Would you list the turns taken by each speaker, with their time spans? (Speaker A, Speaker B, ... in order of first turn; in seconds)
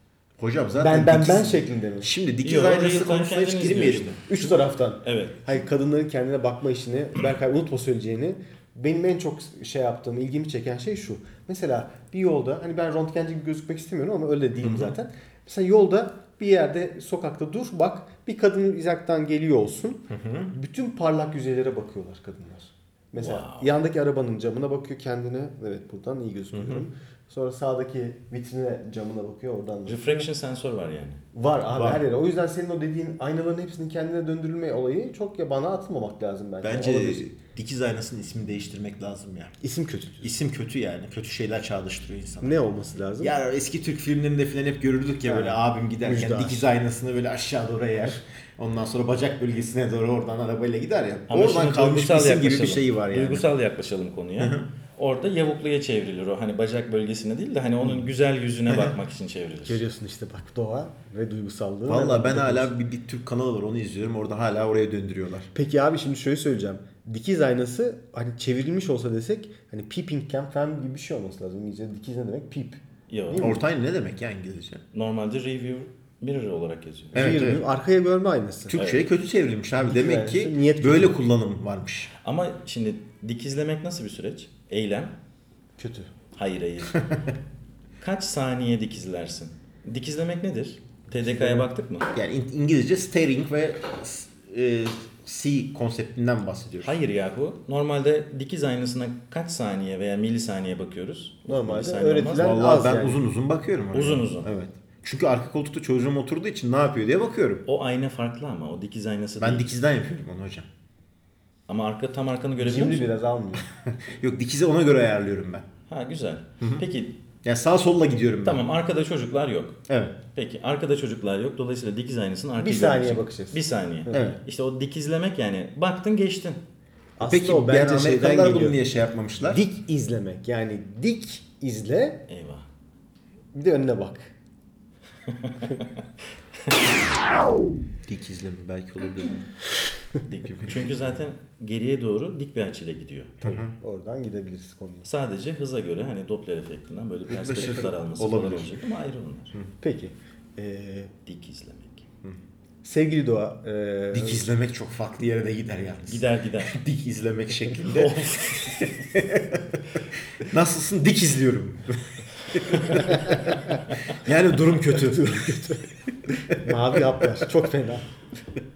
Speaker A: 0.4-4.5, 14.6-14.9, 20.1-20.5, 26.5-26.8, 31.7-32.0, 36.6-39.5, 40.2-42.6, 43.2-53.5, 54.4-54.6, 61.9-65.5, 73.4-74.8, 77.1-77.6, 78.7-82.1, 92.1-96.9, 102.3-107.6, 109.4-110.7, 113.8-115.7, 117.4-118.6, 119.9-120.2, 124.1-124.4, 127.2-129.6, 138.1-139.4, 140.4-140.7, 143.4-143.7, 147.3-148.7, 154.1-163.6, 164.2-165.6, 166.3-166.6
Speaker B: 0.8-2.1, 4.3-30.2, 31.3-37.2, 39.6-40.3, 42.4-43.3, 45.3-46.6, 59.6-62.7, 65.5-73.6, 77.1-78.8, 79.8-81.2, 85.8-86.1, 91.2-91.7, 101.5-103.2, 112.6-113.7, 122.6-124.4, 127.2-128.8, 129.4-132.2, 133.5-134.3, 143.4-145.1, 149.8-151.1, 152.8-154.5, 162.9-163.6, 164.8-168.1
Speaker C: 2.4-4.2, 5.0-5.4, 23.1-23.7, 29.9-31.2, 51.3-59.8, 73.1-73.5, 74.9-77.5, 78.7-79.0, 82.2-85.1, 86.3-87.0, 88.0-92.1, 96.8-102.5, 103.9-104.5, 107.6-109.7, 111.7-113.1, 115.9-117.1, 118.4-119.8, 120.3-126.6, 132.3-132.7, 135.3-136.0, 136.6-136.9, 140.3-143.3, 145.0-149.5, 151.2-152.0, 156.1-156.8, 157.7-158.9, 162.7-163.0